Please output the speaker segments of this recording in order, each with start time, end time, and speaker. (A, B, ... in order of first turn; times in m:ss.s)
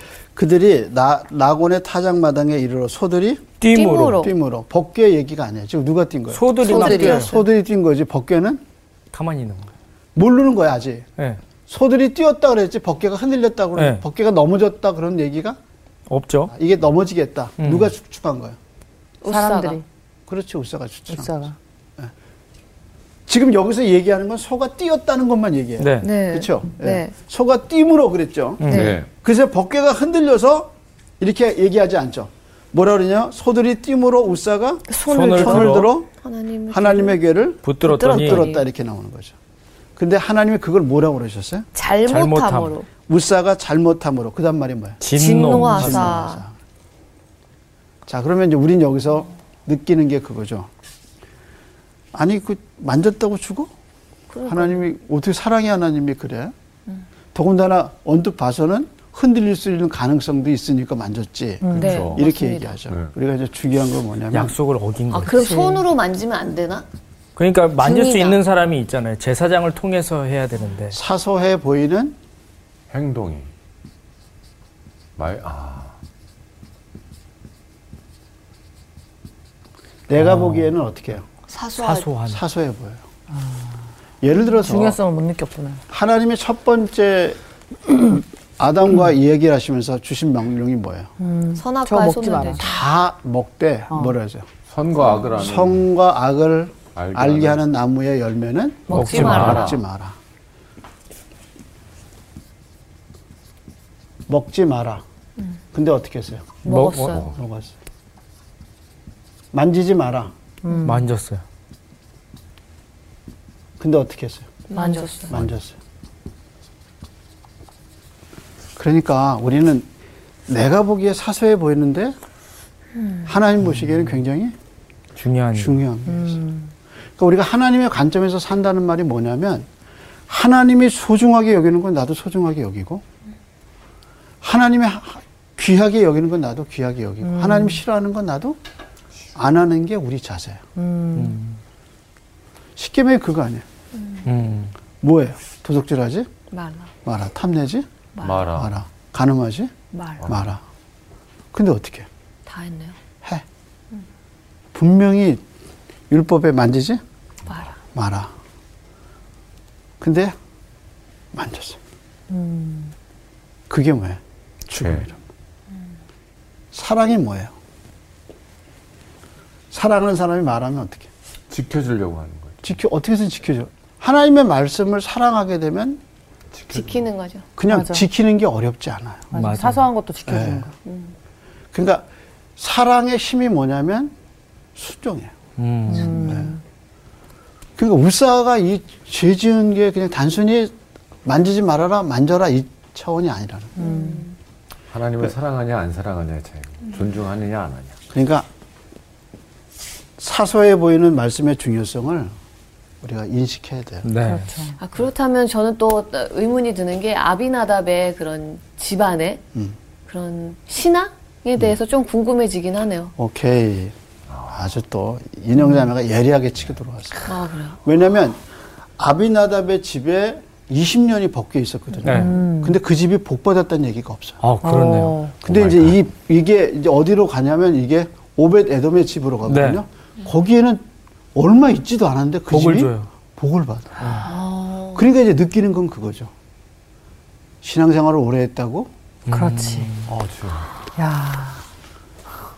0:00.4-0:03.5 A
0:03.6-0:04.3 B
0:03.6-0:04.3 C
0:04.2-0:08.6 A
0:06.3-0:07.4 B
0:06.6-0:07.3 C
0:06.7-0:07.4 D
0:09.1-0:09.7 B
0:10.2-0:11.1 A
0:11.7-0:15.6 A
0:13.8-0:14.0 B
0:16.1-0:16.5 B
0:16.5-0:18.6 A
0:17.6-0:17.9 B
0:19.2-0:19.8 C
0:19.3-0:19.8 D
0:20.3-0:21.4 A
0:21.1-0:21.6 D
0:23.3-0:36.1 A
0:25.8-0:26.1 B
0:26.0-0:27.1 C
0:28.6-0:28.9 B
0:28.6-0:29.0 C
0:28.7-0:29.1 E
0:34.9-0:37.2 C
0:35.1-0:35.9 B
0:36.7-0:39.4 A
0:37.6-0:38.5 B
0:38.0-0:38.6 C
0:40.0-0:41.7 A
0:41.8-0:42.9 C
0:42.1-0:42.8 B
0:43.1-0:45.0 A
0:45.0-0:46.2 B
0:45.1-0:46.4 C
0:45.6-0:46.6 A
0:48.1-0:50.7 A
0:52.1-0:53.7 A
0:54.3-0:54.9 C
0:54.5-0:56.5 A
0:57.3-1:04.6 A
1:01.6-1:02.1 D
1:01.7-1:02.8 C
1:01.8-1:02.2 E
1:04.3-1:05.5 B
1:05.1-1:06.9 C
1:05.3-1:05.8 D
1:07.4-1:11.0 B
1:07.8-1:08.4 C
1:10.9-1:12.2 A
1:12.9-1:13.5 E
1:15.2-1:16.0 E
1:20.1-1:21.3 A
1:20.2-1:20.7 B
1:21.5-1:22.1 C
1:21.8-1:22.4 B
1:22.3-1:23.0 A
1:23.4-1:23.6 D
1:24.2-1:25.0 A
1:24.4-1:25.8 D
1:25.9-1:31.1 A
1:31.2-1:32.6 D
1:31.6-1:32.8 C
1:32.6-1:34.5 A
1:34.7-1:35.9 E
1:35.1-1:35.3 C
1:35.4-1:40.2 A
1:37.0-1:37.6 E
1:38.9-1:39.7 C
1:38.9-1:39.7 B
1:38.9-1:39.8 E
1:44.3-1:45.0 A
1:45.7-1:46.6 A
1:46.6-1:47.3 C
1:46.6-1:47.2 B
1:47.1-1:47.4 E
1:47.3-1:47.8 A
1:49.5-1:50.3 A
1:50.6-1:51.1 D
1:50.8-1:51.4 B
1:53.8-1:54.6 A
1:54.7-1:55.3 C
1:54.8-1:55.2 D
1:55.3-1:55.8 A
1:58.8-1:59.9 A
2:00.5-2:02.2 A
2:03.0-2:03.3 C
2:03.3-2:04.6 A
2:05.2-2:05.8 B
2:05.6-2:06.5 A
2:06.1-2:06.7 D
2:07.2-2:09.7 A
2:10.3-2:13.0 A
2:14.4-2:18.6 A
2:17.3-2:17.8 D
2:19.4-2:20.6 A
2:20.8-2:21.4 D
2:21.2-2:21.6 B
2:22.8-2:23.6 A
2:24.0-2:24.3 C
2:24.2-2:24.7 B
2:25.0-2:26.3 A
2:26.5-2:26.9 C
2:27.0-2:27.9 A
2:28.2-2:28.5 C
2:28.2-2:28.8 E
2:28.5-2:29.7 A
2:29.9-2:30.2 C
2:30.2-2:30.6 A
2:31.5-2:32.1 A
2:32.5-2:33.0 C
2:34.7-2:35.4 A
2:36.1-2:37.0 A
2:37.5-2:37.8 C
2:37.9-2:38.3 A
2:40.0-2:40.4 A
2:41.3-2:41.8 A
2:42.3-2:42.9 D
2:43.7-2:45.2 A
2:46.7-2:47.5 A
2:49.7-2:51.1 A
2:51.5-2:52.7 E
2:52.6-2:56.0 A
2:56.5-2:57.0 E
2:56.7-2:57.5 C
2:57.6-2:59.3 A
2:57.7-2:58.1 D
2:59.3-3:00.7 D
2:59.3-2:59.9 B
3:00.3-3:00.7 A
3:00.8-3:01.1 C
3:01.7-3:02.1 A
3:02.6-3:04.1 A
3:04.8-3:05.3 A
3:05.6-3:06.2 B
3:05.9-3:06.6 D
3:06.1-3:06.6 A
3:07.8-3:10.7 A
3:11.2-3:13.8 A
3:13.8-3:14.2 D
3:13.8-3:14.4 C
3:14.9-3:18.0 E
3:18.1-3:18.5 A
3:20.2-3:22.3 A
3:23.0-3:24.1 A
3:24.0-3:24.5 B
3:24.2-3:24.8 D
3:24.8-3:29.4 C
3:30.1-3:33.1 C
3:33.2-3:34.0 A
3:34.5-3:38.4 A
3:37.3-3:37.8 C
3:39.0-3:44.4 A
3:42.0-3:42.3 B
3:42.1-3:42.8 D
3:44.4-3:45.2 B
3:44.6-3:45.4 D
3:45.4-3:50.8 A
3:45.5-3:46.0 E
3:49.5-3:49.8 B
3:51.4-3:54.3 A
3:52.5-3:53.1 B
3:54.0-3:54.3 B
3:54.2-3:55.1 C
3:54.9-3:56.3 A
3:57.6-3:58.9 A
3:59.3-4:00.1 B
3:59.3-3:59.9 D
4:00.1-4:00.7 E
4:01.0-4:01.6 D